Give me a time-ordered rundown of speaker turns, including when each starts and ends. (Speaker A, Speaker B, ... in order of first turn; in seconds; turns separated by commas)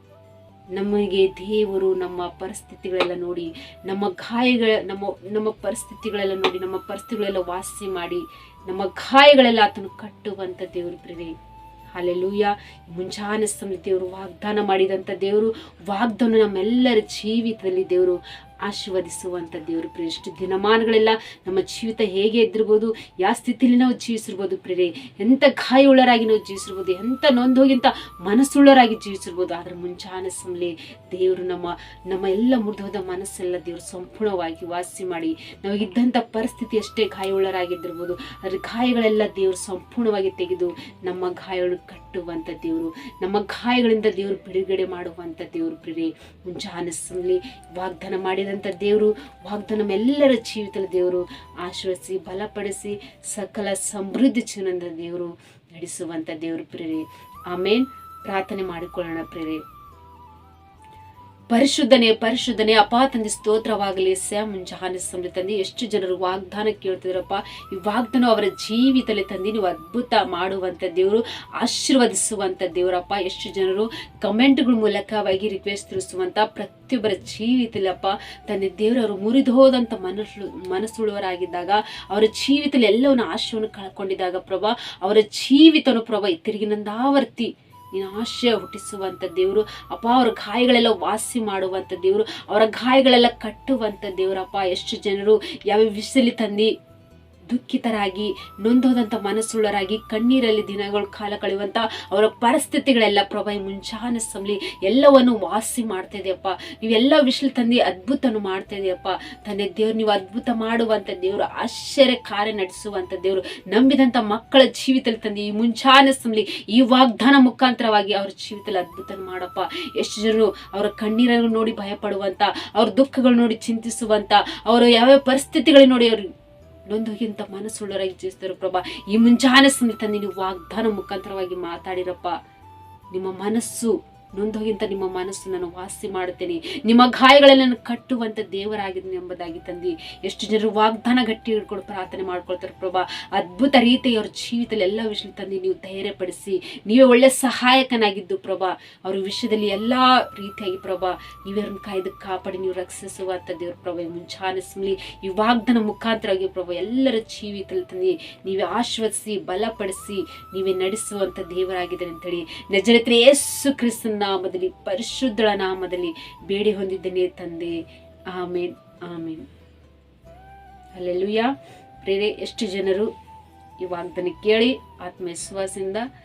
Speaker A: 0.7-11.3, Speaker A: 11.9-59.6, Speaker A: 61.5-96.7, Speaker A: 97.5-126.3, Speaker A: 126.9-132.4, Speaker A: 133.1-169.4, Speaker A: 170.9-173.1, Speaker A: 173.8-176.1